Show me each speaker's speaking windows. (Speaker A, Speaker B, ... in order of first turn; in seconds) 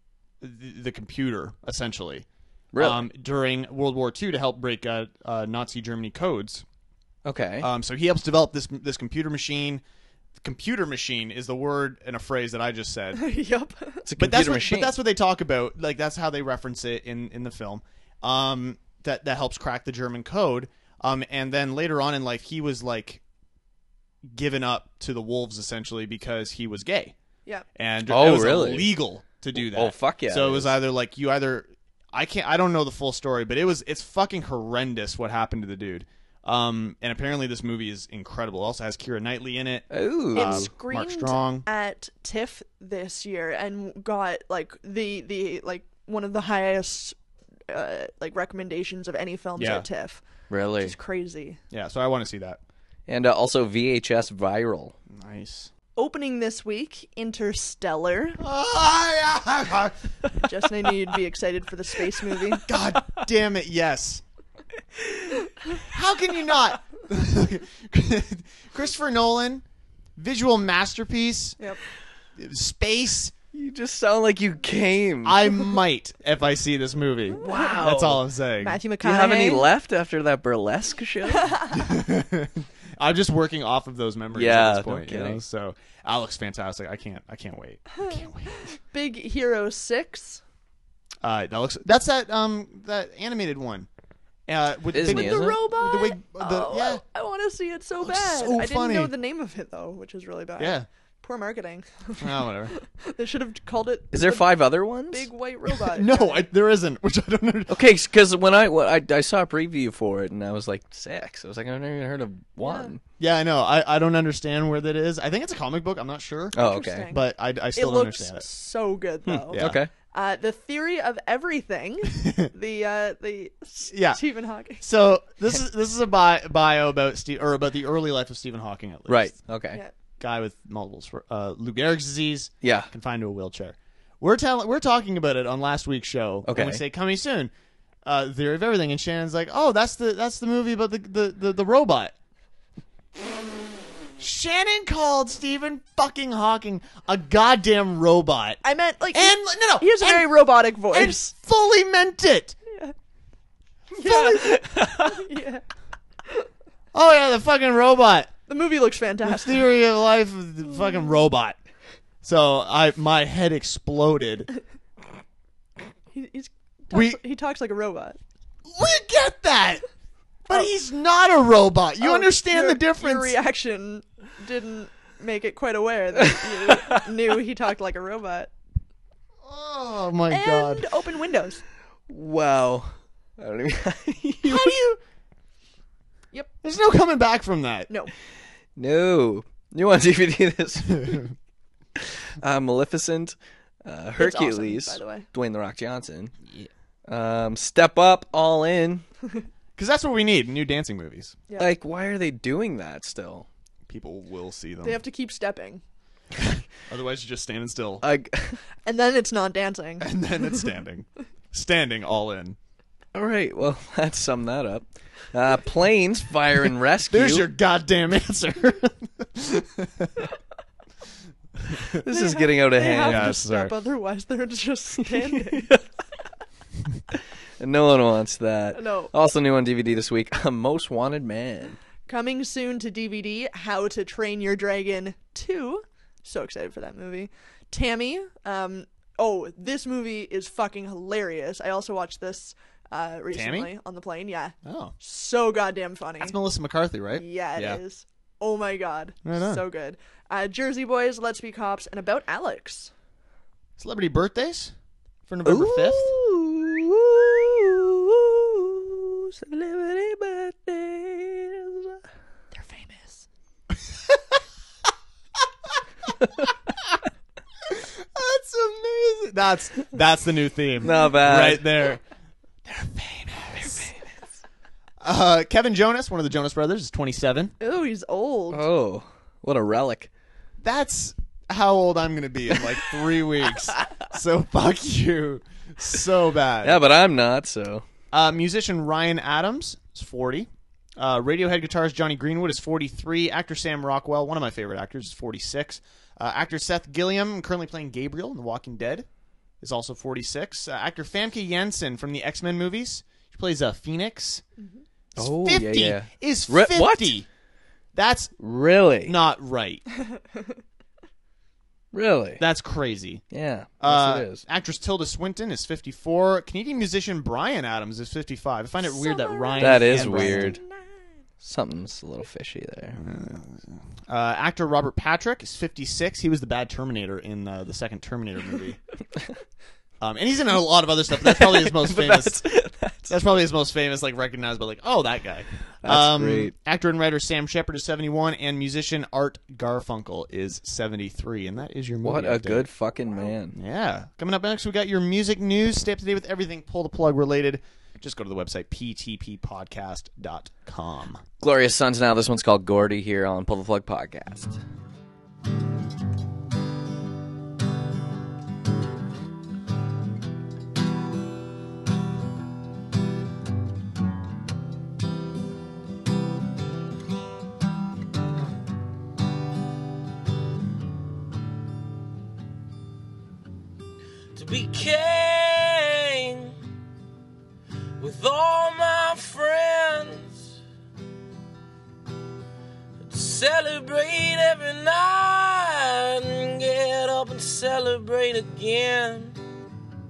Speaker A: 0.4-6.6, 7.6-9.8, 10.4-13.2, 14.2-23.2, 24.2-27.1, 27.8-41.7, 49.6-49.9, 51.7-52.6, 55.1-55.7, 58.4-60.1, 62.6-64.2, 65.7-69.6, 70.2-71.6, 72.3-73.3, 75.2-78.8, 81.7-88.7, 91.2-93.9, 94.5-97.0, 98.0-99.1, 100.6-100.9, 102.2-102.7, 105.8-107.9, 113.2-118.5, 119.5-119.8, 122.1-122.5, 123.9-124.2, 124.8-129.4, 130.2-137.5, 138.0-142.1, 144.2-148.6, 149.1-152.6, 156.9-158.3, 159.2-161.6, 162.2-164.5, 166.9-167.2, 168.7-169.8, 170.4-173.4, 179.4-180.9, 184.4-185.0, 186.6-187.9, 199.8-201.4, 203.9-205.0, 206.3-208.0, 210.0-212.6, 217.1-220.2, 221.7-222.0, 223.0-223.7, 243.3-243.7, 244.6-244.9, 246.2-247.8, 249.2-249.6, 253.8-254.7, 255.3-256.1, 267.7-272.0, 272.6-273.9, 275.0-277.5, 280.6-286.8, 288.1-299.1, 299.6-304.4, 305.1-307.3, 307.9-308.3, 309.0-309.8, 312.4-313.2, 313.8-320.6, 322.9-328.8, 330.0-332.4, 333.1-342.7, 343.5-351.2
Speaker B: 2.7-3.0, 7.2-7.7, 14.1-14.9, 28.1-29.0, 29.5-30.8, 39.9-40.7, 50.5-50.9, 53.1-54.9, 73.5-75.4, 77.4-78.2, 79.0-81.6, 84.3-85.4, 94.9-95.6, 104.1-105.3, 107.7-113.0, 116.5-117.1, 119.2-119.9, 129.1-129.8, 132.6-132.9, 136.4-136.8, 154.0-155.2, 176.6-177.0, 182.1-184.7, 188.8-191.2, 192.0-196.3, 197.1-199.0, 201.6-203.5, 208.0-208.6, 213.1-217.5, 222.0-223.4, 225.1-225.8, 227.6-231.8, 255.4-262.0, 270.8-271.7, 273.6-274.1, 278.5-280.1, 286.6-287.8, 305.2-307.1, 308.4-309.1, 311.9-312.4, 313.3-314.4, 319.6-320.6, 321.4-323.0, 331.2-333.1, 335.8-336.5, 342.0-343.6, 351.4-354.6
Speaker C: 13.1-14.0, 40.3-47.2, 47.7-50.2, 50.8-51.6, 56.0-58.4, 60.4-62.6, 77.5-77.8, 78.6-79.7, 81.3-81.8, 88.0-90.4, 95.0-104.6, 105.1-106.5, 112.6-112.9, 116.5-124.8, 148.6-151.3, 152.7-152.9, 154.0-155.6, 158.5-159.7, 166.1-168.2, 172.0-178.5, 180.3-181.6, 194.2-195.3, 204.8-205.8, 208.8-210.7, 222.1-225.7, 228.7-229.1, 232.1-246.4, 247.1-252.9, 262.5-263.2, 277.6-278.6, 304.6-304.8, 310.1-310.5, 318.8-321.1
Speaker D: 374.3-376.6, 378.0-380.6, 383.0-389.4